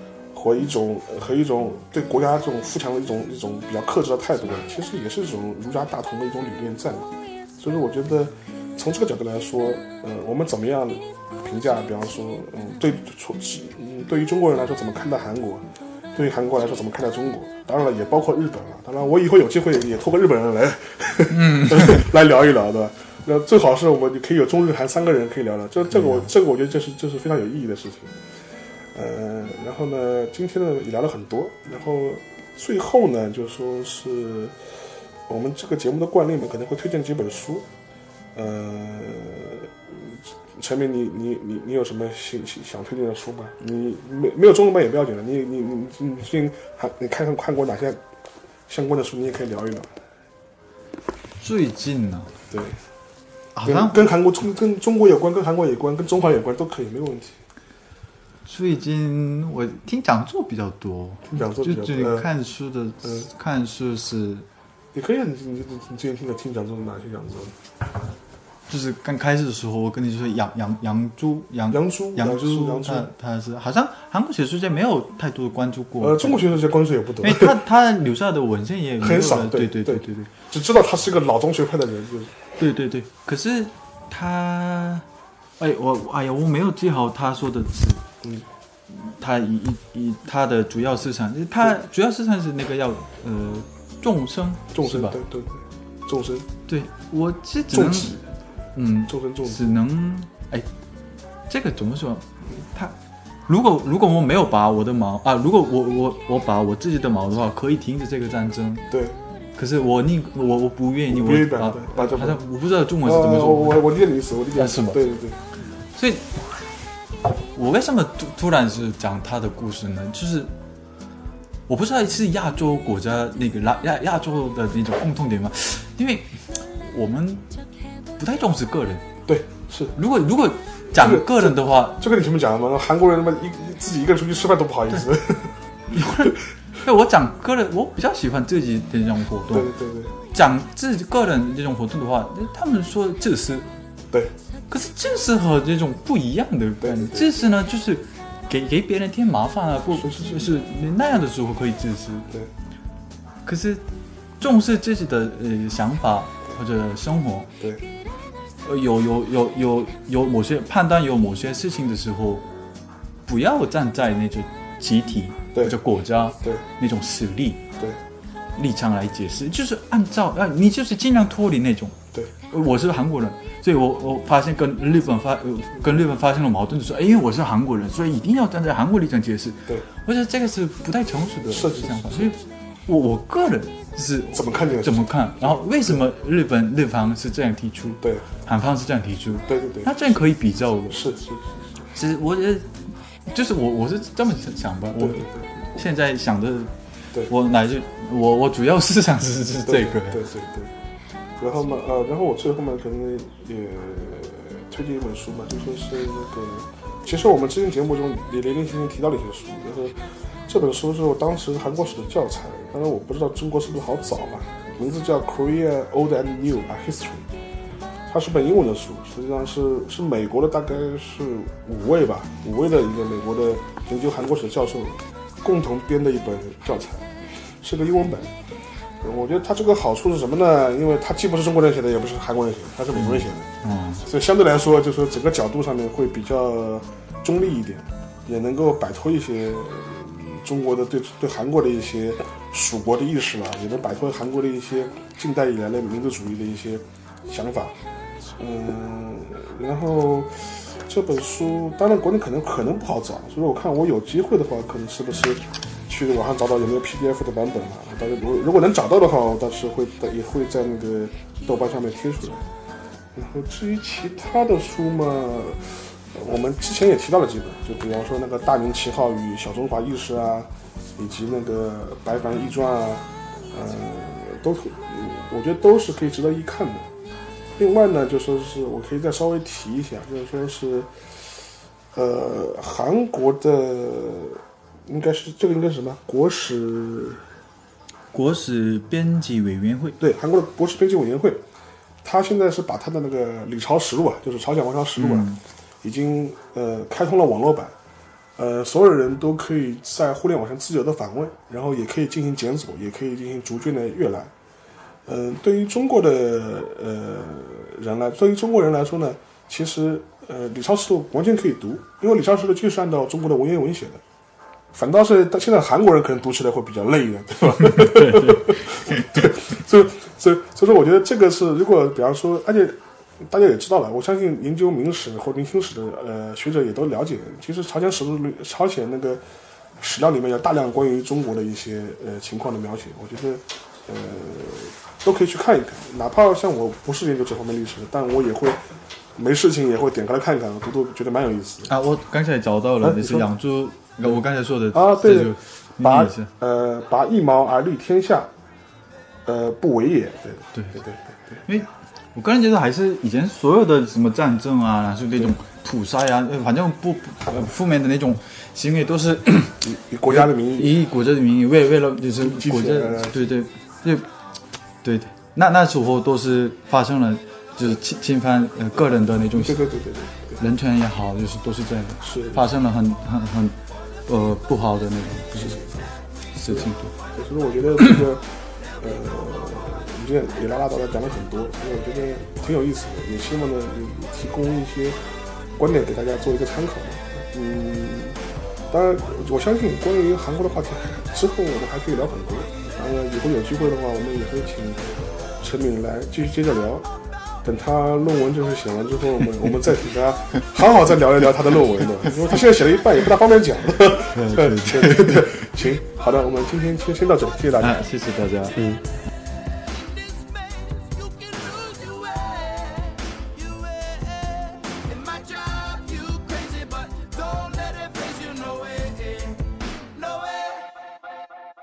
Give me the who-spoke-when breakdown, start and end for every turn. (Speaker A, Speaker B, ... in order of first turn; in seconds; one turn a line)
Speaker A: 0.3-28.1
Speaker B: 21.3-22.1
Speaker B: 25.9-26.3
Speaker A: 28.9-34.5
Speaker A: 35.3-37.7
Speaker A: 38.3-48.0
Speaker A: 48.7-49.9
Speaker B: 51.4-52.3
Speaker A: 52.5-52.8
Speaker B: 53.5-54.1
Speaker A: 53.6-57.4
Speaker B: 58.5-64.5
Speaker A: 61.3-62.3
Speaker A: 64.9-67.5
Speaker B: 68.7-76.4
Speaker A: 71.7-73.1
Speaker A: 76.0-77.6
Speaker B: 77.2-80.3
Speaker A: 79.0-82.3
Speaker B: 82.6-85.0
Speaker B: 85.6-88.1
Speaker A: 88.2-88.5
Speaker B: 88.9-95.2
Speaker A: 94.7-96.5
Speaker B: 96.7-98.2
Speaker A: 97.7-98.2
Speaker B: 98.7-100.7
Speaker A: 99.1-99.6
Speaker B: 101.5-102.9
Speaker B: 103.5-108.9
Speaker A: 108.9-109.2
Speaker B: 109.5-113.9
Speaker A: 111.1-112.4
Speaker A: 113.0-115.4
Speaker B: 114.5-115.0
Speaker B: 115.9-116.4
Speaker B: 117.5-120.5
Speaker B: 121.7-127.5
Speaker B: 128.2-129.1
Speaker A: 129.3-129.9
Speaker B: 129.9-132.0
Speaker A: 130.9-135.6
Speaker B: 135.9-139.7
Speaker A: 139.5-140.1
Speaker B: 140.3-143.7
Speaker B: 144.7-152.3
Speaker A: 146.8-147.3
Speaker A: 149.9-150.5
Speaker B: 153.4-153.8
Speaker B: 154.4-157.5
Speaker B: 158.6-162.4
Speaker B: 163.3-167.6
Speaker B: 168.6-172.0
Speaker B: 172.5-191.1
Speaker A: 181.5-182.3
Speaker A: 184.3-185.6
Speaker A: 189.4-190.2
Speaker A: 190.9-191.9
Speaker B: 191.9-196.7
Speaker A: 194.9-195.5
Speaker B: 197.2-200.2
Speaker A: 199.7-200.7
Speaker A: 201.4-217.2
Speaker A: 218.1-227.1
Speaker A: 227.6-228.3
Speaker A: 229.0-233.5
Speaker B: 232.9-234.0
Speaker A: 234.0-247.7
Speaker A: 248.4-262.4
Speaker A: 263.1-276.9
Speaker A: 277.6-281.2
Speaker A: 281.9-287.3
Speaker B: 288.1-290.0
Speaker A: 290.0-291.4
Speaker A: 292.0-297.7
Speaker B: 295.0-295.4
Speaker A: 298.4-304.3
Speaker A: 305.1-314.0
Speaker A: 314.7-329.2
Speaker B: 317.7-319.2
Speaker A: 329.8-338.6
Speaker A: 339.1-341.7
Speaker B: 341.6-346.3
Speaker A: 342.8-343.3
Speaker A: 344.7-348.3
Speaker A: 349.2-351.4
Speaker B: 350.5-350.8
Speaker B: 351.4-364.1
Speaker A: 359.6-360.8
Speaker A: 362.2-363.3
Speaker B: 364.8-369.7
Speaker A: 369.3-370.4
Speaker B: 370.4-375.6
Speaker A: 372.0-372.5
Speaker A: 375.3-375.9
Speaker B: 376.3-376.9
Speaker A: 376.4-385.0
Speaker A: 385.6-388.2
Speaker A: 388.7-396.9
Speaker A: 397.4-407.9
Speaker B: 404.1-405.3
Speaker B: 407.6-408.7
Speaker A: 408.5-408.8
Speaker C: 409.4-420.8